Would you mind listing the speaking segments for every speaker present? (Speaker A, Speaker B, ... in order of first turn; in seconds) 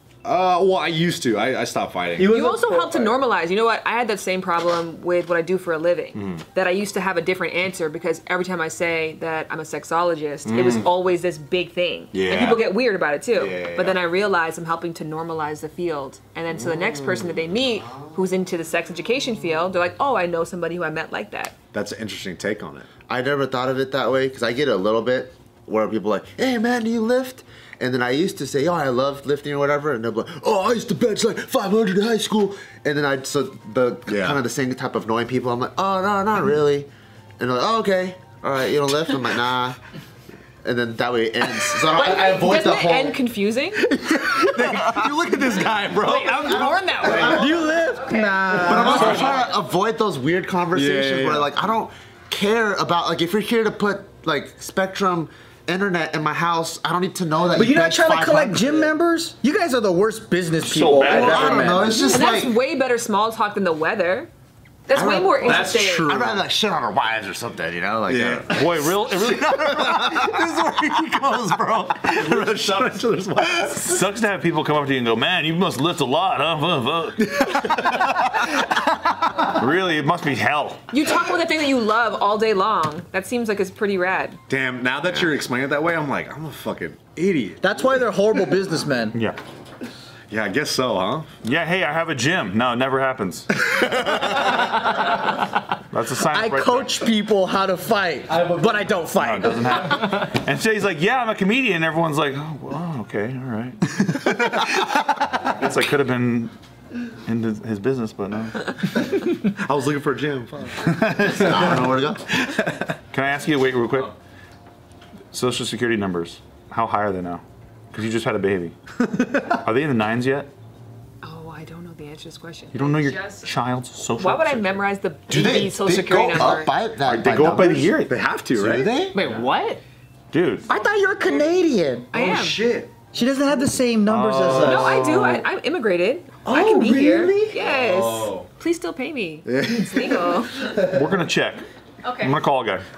Speaker A: 0.2-2.4, 6.1-6.4, 10.4-10.9, 12.1-12.7, 13.3-14.0, 16.6-17.3, 21.7-22.9, 34.1-34.4, 43.8-47.4, 48.6-49.4, 50.7-51.5, 65.0-66.4, 68.1-68.8, 70.4-70.9, 72.0-74.0, 77.3-78.0, 84.5-87.8, 90.3-91.3, 109.0-112.8, 119.0-119.6, 128.0-129.2, 132.1-132.9, 134.4-135.2, 137.6-138.5, 139.5-140.3
Speaker B: 2.2-3.1, 47.0-49.3, 57.5-62.2, 87.6-89.2, 96.2-99.8, 130.7-132.1, 133.1-135.4, 136.4-137.6
Speaker C: 2.2-21.6, 41.9-43.8, 62.0-64.3, 64.9-66.2, 80.9-84.4, 121.2-123.5, 124.2-126.7, 132.1-132.6, 134.6-140.8, 142.0-142.4
Speaker D: 23.1-39.8, 40.6-43.2, 44.6-45.1, 46.2-47.7, 48.6-58.9, 61.1-62.6, 64.9-72.5, 111.2-112.2, 125.3-128.0, 128.5-129.2
Speaker E: 46.1-47.3, 129.1-129.8
Speaker F: 60.6-61.8, 68.5-70.2, 73.8-78.5, 79.2-80.9, 89.1-89.4, 91.4-94.9, 95.9-97.0, 99.2-104.8, 105.3-106.5, 107.2-108.8, 113.1-114.1, 115.3-118.7, 119.6-120.5, 122.7-124.8, 127.0-128.2, 130.3-130.7, 134.1-134.9, 140.8-141.6, 142.2-142.8